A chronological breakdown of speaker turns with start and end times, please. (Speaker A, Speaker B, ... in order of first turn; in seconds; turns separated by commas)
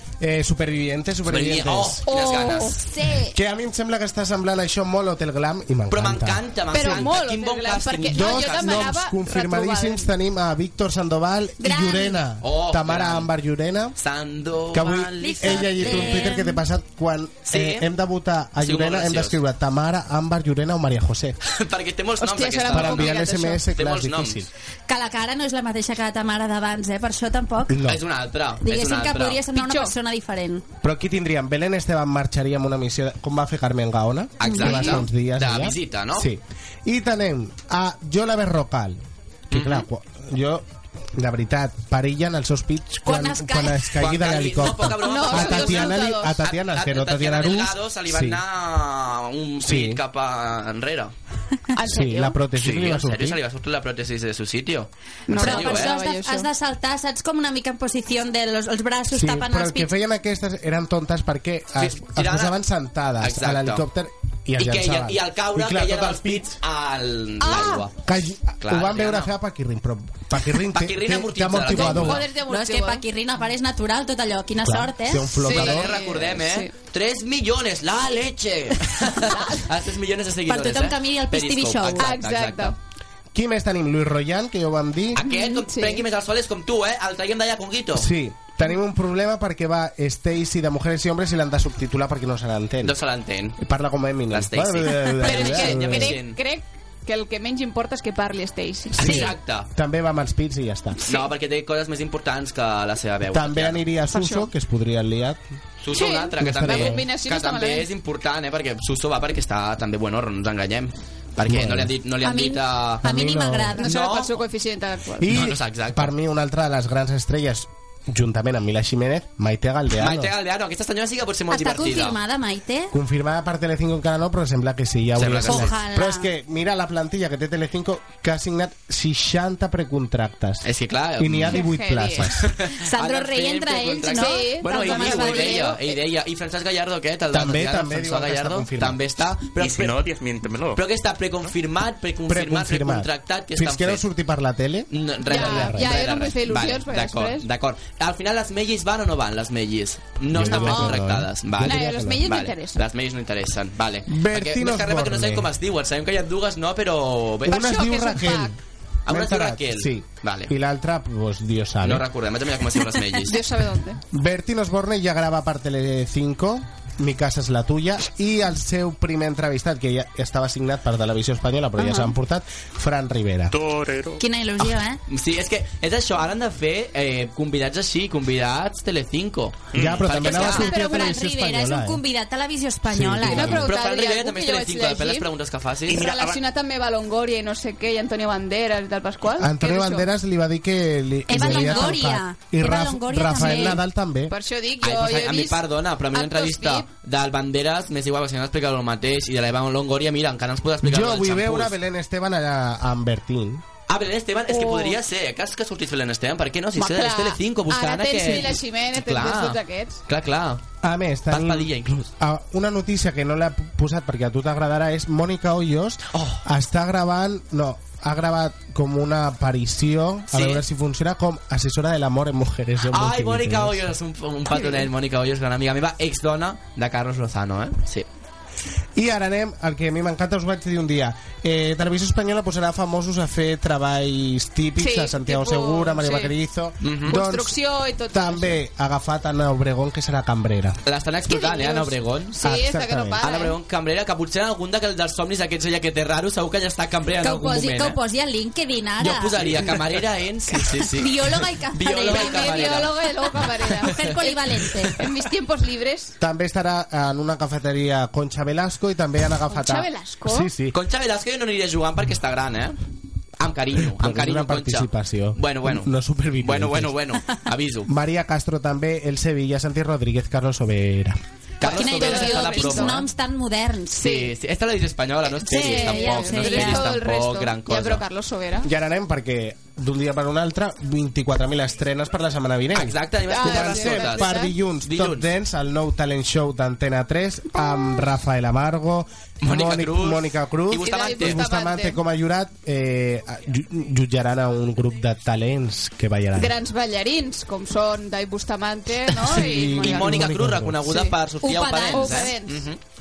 Speaker A: 0.2-2.0, Speaker B: 1.2-2.8, Speaker C: 2.1-2.8, Speaker D: 2.7-3.3, Speaker A: 3.3-7.1, Speaker B: 5.9-8.9, Speaker C: 6.7-10.1, Speaker A: 8.1-13.9, Speaker D: 11.6-12.1, Speaker B: 12.4-13.3, Speaker B: 14.0-16.3, Speaker A: 14.7-21.4, Speaker D: 15.2-16.6, Speaker B: 17.5-17.9, Speaker B: 18.6-19.4, Speaker B: 21.4-24.4, Speaker C: 22.2-23.6, Speaker A: 22.7-24.5, Speaker D: 24.9-27.8, Speaker A: 27.7-28.0, Speaker B: 27.9-29.4, Speaker D: 28.6-30.6, Speaker C: 29.5-29.9, Speaker A: 30.8-39.0, Speaker B: 34.4-36.3, Speaker D: 34.4-35.0, Speaker A: 39.5-40.6, Speaker B: 39.5-39.9, Speaker A: 41.1-48.4, Speaker D: 43.0-43.9, Speaker B: 44.0-51.1, Speaker C: 45.0-46.4, Speaker A: 49.6-50.0, Speaker C: 51.8-52.4, Speaker A: 51.9-53.4, Speaker B: 52.6-56.0, Speaker C: 55.3-56.5, Speaker D: 55.4-59.9, Speaker A: 59.1-66.5, Speaker B: 61.8-62.6, Speaker B: 63.2-63.8, Speaker B: 64.6-67.9, Speaker C: 67.4-67.8, Speaker A: 68.0-72.2, Speaker B: 68.6-69.3, Speaker B: 70.7-72.2, Speaker C: 71.7-73.0, Speaker D: 72.5-75.4, Speaker A: 74.6-76.0, Speaker B: 75.4-82.8, Speaker C: 75.4-76.7, Speaker C: 79.3-79.6, Speaker D: 80.5-82.1, Speaker C: 82.0-82.7, Speaker A: 83.3-85.2, Speaker B: 85.1-88.1, Speaker C: 85.3-86.0, Speaker A: 87.9-92.9, Speaker B: 92.8-93.5, Speaker A: 93.6-96.2, Speaker B: 94.3-96.4, Speaker C: 95.2-99.2, Speaker A: 98.9-101.0, Speaker B: 99.0-99.7, Speaker B: 101.1-103.8, Speaker A: 103.3-105.4, Speaker C: 104.1-104.5, Speaker B: 105.8-113.0, Speaker A: 105.9-107.0, Speaker C: 105.9-107.9, Speaker A: 111.4-111.9, Speaker D: 112.2-113.9, Speaker A: 113.0-113.8, Speaker C: 113.8-115.3, Speaker B: 113.8-114.4, Speaker A: 115.2-120.3, Speaker B: 115.3-116.1, Speaker B: 120.0-122.2, Speaker D: 121.5-122.9, Speaker A: 122.9-132.5, Speaker B: 125.2-125.8, Speaker D: 125.5-126.3, Speaker B: 130.6-131.6, Speaker C: 131.5-132.3, Speaker B: 132.2-140.0, Speaker D: 132.8-135.7, Speaker C: 134.0-135.9, Speaker A: 137.3-139.0, Speaker E: 139.6-140.8, Speaker B: 140.7-144.0, Speaker A: 142.3-146.0, Speaker B: 144.9-157.8, Speaker C: 145.3-147.4, Speaker A: 150.3-152.2, Speaker C: 150.4-151.0, Speaker C: 151.6-152.8, Speaker A: 154.1-155.5, Speaker A: 157.4-162.0, Speaker C: 157.5-158.5, Speaker B: 159.1-160.5, Speaker B: 161.8-163.4, Speaker C: 163.2-164.0, Speaker A: 164.1-173.5, Speaker D: 171.8-172.1, Speaker E: 173.5-174.2, Speaker D: 174.2-175.0, Speaker B: 175.1-180.7, Speaker E: 179.7-180.1, Speaker A: 179.8-182.0, Speaker D: 180.2-183.6, Speaker C: 180.5-181.2, Speaker A: 182.9-183.7, Speaker C: 183.2-185.3, Speaker B: 183.4-186.1, Speaker E: 185.9-186.4, Speaker C: 185.9-190.1, Speaker A: 189.4-194.3, Speaker D: 191.3-193.8, Speaker C: 194.3-195.6, Speaker B: 194.8-201.7, Speaker C: 196.1-196.8, Speaker A: 200.8-203.6, Speaker B: 203.9-210.6, Speaker C: 204.5-204.9, Speaker C: 206.8-210.0, Speaker A: 210.8-223.8, Speaker B: 211.3-211.9, Speaker B: 216.1-216.4, Speaker B: 220.3-220.6, Speaker B: 222.9-228.1, Speaker A: 228.9-237.6, Speaker C: 234.8-236.3, Speaker B: 236.8-237.2, Speaker C: 237.1-238.6, Speaker A: 238.1-240.8, Speaker B: 240.8-242.3, Speaker C: 241.3-243.5, Speaker A: 242.4-243.2, Speaker B: 243.2-248.0, Speaker D: 247.2-249.6, Speaker B: 249.0-252.9, Speaker D: 250.9-252.9, Speaker C: 251.9-254.4, Speaker D: 253.8-254.9, Speaker C: 254.9-256.1, Speaker A: 256.2-260.8, Speaker C: 259.5-260.5, Speaker B: 260.7-262.8, Speaker B: 263.4-267.9, Speaker A: 263.8-266.9, Speaker A: 267.9-271.2, Speaker B: 271.6-273.0, Speaker D: 271.6-274.1, Speaker C: 271.7-273.0, Speaker C: 274.0-274.3, Speaker B: 274.0-278.0, Speaker D: 275.4-276.8, Speaker C: 275.5-278.7, Speaker A: 278.6-296.6, Speaker B: 282.7-285.3, Speaker C: 283.3-284.5, Speaker C: 287.6-288.0, Speaker B: 289.4-291.4, Speaker C: 290.8-292.0, Speaker C: 296.4-302.6, Speaker A: 299.2-300.8, Speaker B: 299.3-302.8, Speaker D: 301.4-302.2